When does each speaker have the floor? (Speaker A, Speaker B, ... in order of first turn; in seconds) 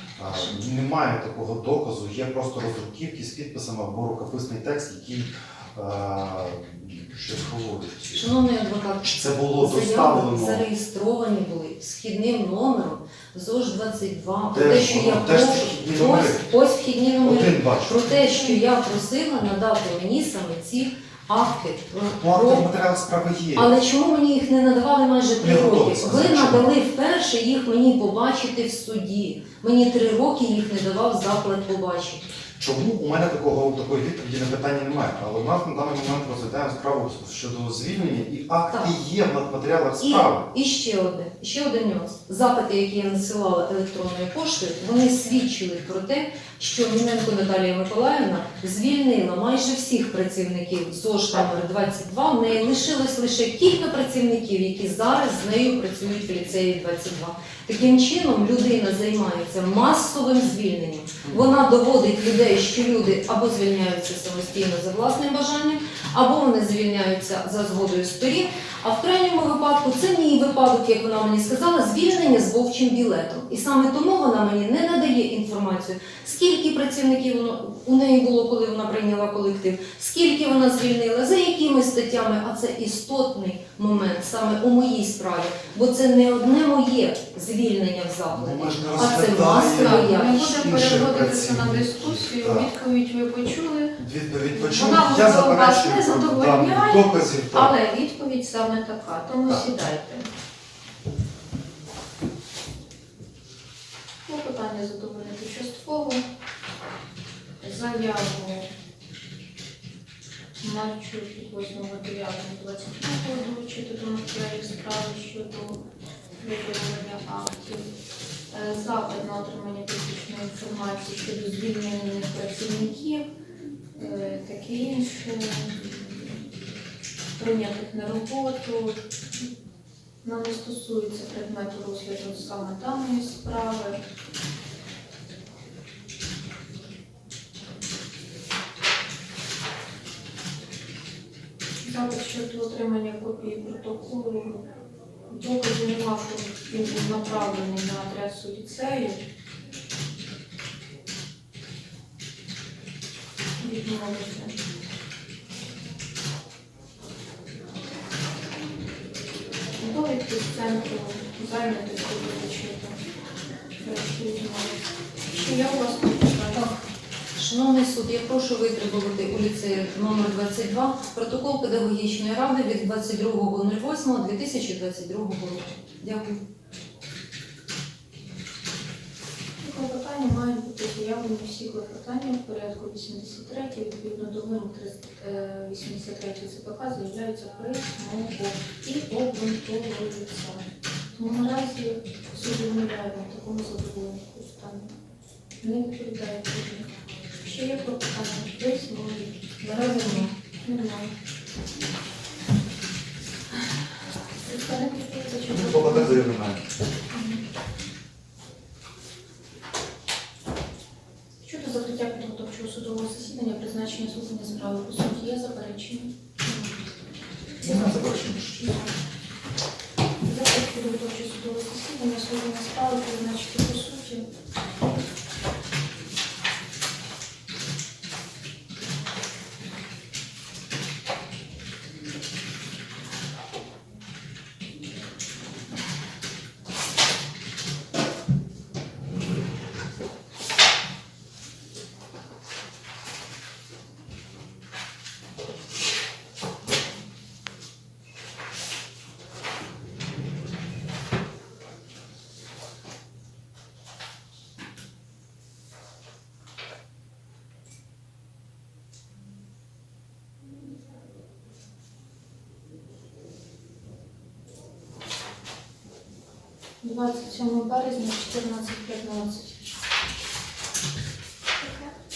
Speaker A: 0.2-8.3, 9.0-10.7, 14.5-16.4, 17.2-18.0, 22.2-23.7, 25.4-26.7, 32.6-40.5, 88.3-92.7, 94.0-97.7, 205.5-206.6, 217.6-218.7
Speaker B: 8.2-22.7, 23.6-32.2, 40.0-90.6, 167.4-176.4, 199.6-200.3
Speaker C: 18.3-18.6, 89.0-94.0, 94.5-100.3, 104.3-106.2, 107.6-108.7, 110.6-115.8, 116.4-117.9, 118.5-123.2, 124.0-126.4, 127.4-129.0, 130.2-134.0, 141.8-144.6, 145.3-149.2, 153.6-154.6, 159.8-163.0, 163.8-166.8, 179.6-194.9, 195.6-196.9, 197.4-201.1, 204.4-206.3, 207.1-207.4, 211.4-216.6, 220.3-224.3, 266.8-269.8, 271.6-271.9